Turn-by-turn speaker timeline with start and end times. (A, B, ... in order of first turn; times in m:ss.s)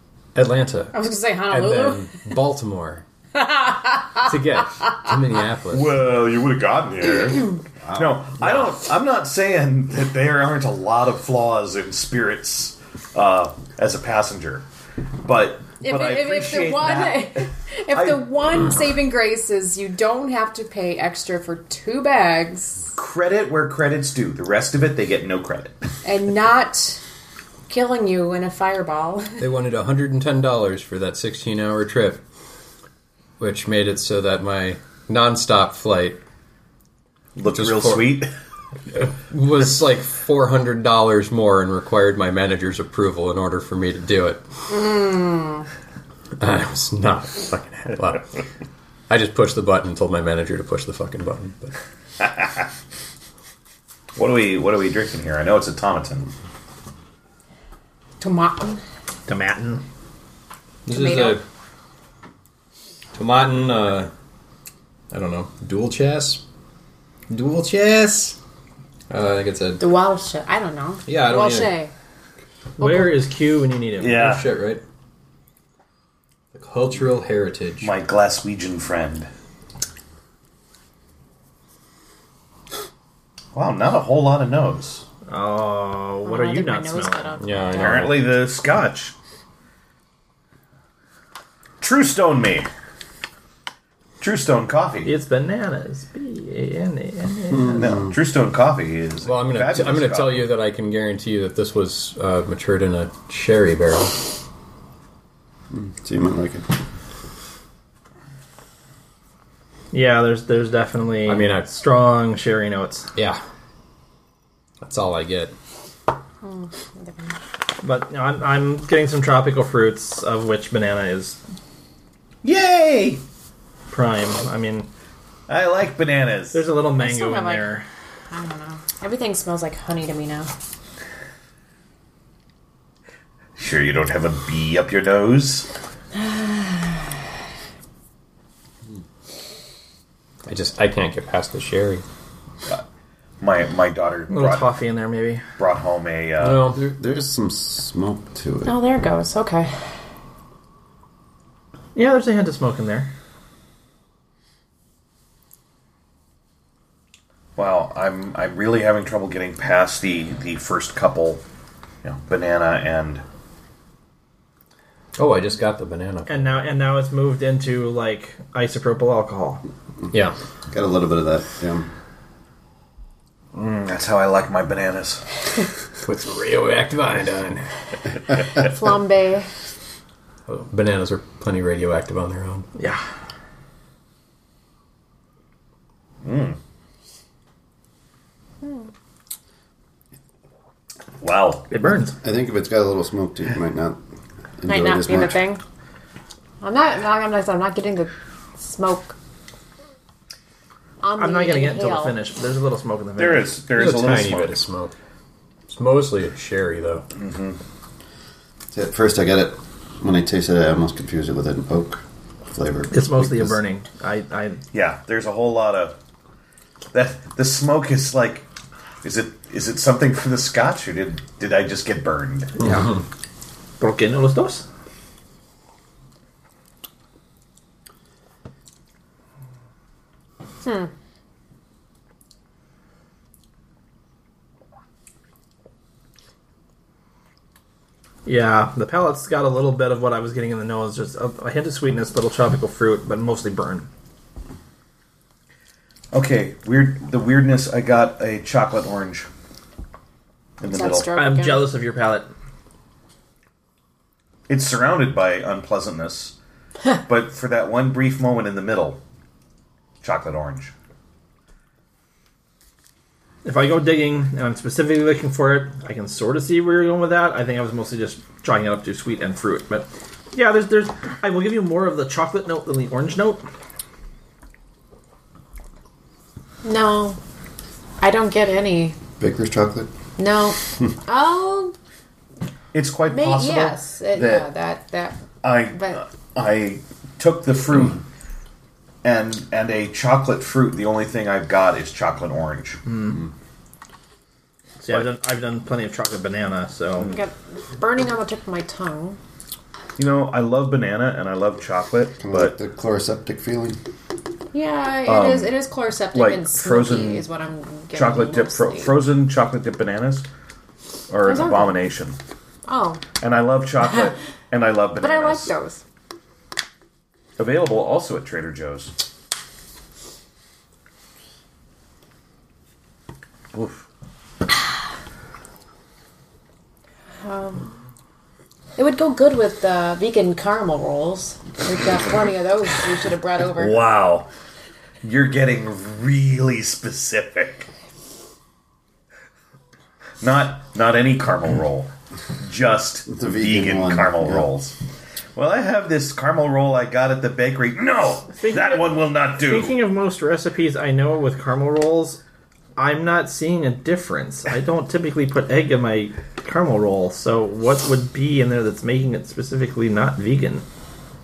0:00.3-0:00.9 A
0:00.9-0:02.2 B
0:01.5-0:03.0 A
0:03.3-0:04.4 B
0:04.2-0:06.0 A
0:05.7-0:14.6 C
0:07.8-0:08.6 D
0:15.2-0:18.3 C
0:15.8-0:22.9 B
0:23.0-0:25.8 C
0:26.0-0:27.0 B
0:27.7-0:29.5 B
0:29.4-0:32.2 A
0:33.4-0:36.2 A
0:37.4-0:38.3 C
0:37.5-0:38.2 A
0:38.9-0:44.4 A
0:44.9-0:45.6 B
0:46.4-0:48.3 A
0:49.1-0:51.7 A
0:54.2-0:56.3 C
0:58.2-0:58.8 B
0:59.3-0:59.8 E
1:00.8-1:01.4 A
1:00.9-1:01.4 B
1:03.1-1:04.1 A
1:05.1-1:06.4 A
1:07.3-1:08.4 A
1:09.1-1:09.8 A
1:09.8-1:11.9 B
1:11.1-1:11.8 A
1:12.8-1:14.2 E
1:12.8-1:13.1 B
1:14.0-1:14.4 C
1:14.0-1:14.8 A
1:16.5-1:17.9 A
1:17.8-1:19.3 C
1:23.5-1:25.0 C
1:25.3-1:27.9 E
1:26.2-1:27.8 B
1:27.4-1:28.1 A
1:27.7-1:29.1 C
1:31.8-1:32.7 C
1:34.2-1:35.1 C
1:35.0-1:38.0 E
1:37.6-1:38.0 D
1:37.8-1:40.5 C
1:39.2-1:44.2 A
1:45.7-1:46.6 D
1:49.9-1:53.1 E
1:51.2-1:51.7 A
1:53.1-1:53.4 A
1:54.8-1:55.5 A
1:56.4-1:57.3 B
1:57.8-2:01.4 E
2:02.4-2:03.2 C
2:03.9-2:04.9 E
2:05.5-2:06.6 C
2:06.5-2:07.8 E
2:07.0-2:07.7 B
2:08.3-2:10.5 B
2:13.6-2:15.7 C
2:16.2-2:16.9 B
2:20.4-2:22.0 A
2:23.4-2:24.7 C
2:24.3-2:25.4 E
2:25.6-2:26.7 C
2:26.4-2:26.8 A
2:26.7-2:28.9 D
2:28.6-2:29.7 B
2:31.9-2:33.1 E
2:37.6-2:41.4 C
2:42.0-2:43.2 C
2:45.2-2:46.5 A
2:46.3-2:49.6 E
2:50.7-2:51.9 D
2:53.5-2:55.2 C
2:56.0-2:58.4 A
2:58.5-2:59.5 B
3:00.5-3:02.7 A
3:06.2-3:06.6 C
3:11.2-3:11.7 C
3:11.7-3:12.2 E
3:12.2-3:14.0 D
3:14.6-3:15.4 D
3:14.7-3:15.6 B
3:16.6-3:19.1 B
3:21.0-3:22.1 B
3:21.2-3:23.6 E
3:23.2-3:24.6 C
3:23.7-3:24.9 A
3:25.7-3:27.0 A
3:27.1-3:27.6 C
3:28.7-3:33.6 D
3:32.9-3:34.6 E
3:34.7-3:36.0 C
3:36.9-3:38.4 C
3:39.0-3:42.6 C
3:42.6-3:42.9 E
3:42.6-3:42.9 A
3:43.8-3:44.6 E
3:50.6-3:50.9 B
3:58.2-4:03.9 E
4:06.1-4:09.3 C
4:10.6-4:11.1 C
4:10.7-4:11.7 B
4:11.1-4:12.3 E
4:14.5-4:16.3 C
4:17.0-4:19.0 C
4:20.0-4:20.7 C
4:23.4-4:33.4 E
4:36.6-4:37.2 B
4:38.0-4:39.0 B
4:39.2-4:39.9 D
4:40.2-4:41.7 B
4:42.7-4:44.5 C
4:43.1-4:45.2 B
4:45.4-4:48.0 C
4:45.7-4:46.0 B
4:49.0-4:52.8 C
4:52.8-4:53.2 E
4:54.8-4:57.1 E
4:57.1-4:59.2 B
5:00.0-5:02.5 C
5:02.2-5:03.8 D
5:04.5-5:09.0 B
5:05.0-5:05.5 C
5:06.1-5:07.2 C
5:07.9-5:10.2 C
5:11.1-5:12.2 C
5:11.2-5:11.8 B
5:12.6-5:13.0 B
5:13.2-5:15.5 C
5:15.0-5:15.8 B
5:17.4-5:18.9 C
5:23.5-5:23.8 C
5:27.2-5:27.7 B
5:28.8-5:33.8 B
5:33.5-5:34.3 C
5:35.0-5:37.7 C
5:40.2-5:44.7 C
5:43.1-5:44.5 D
5:45.4-5:49.8 C
5:48.3-5:52.2 E
5:52.8-6:00.6 E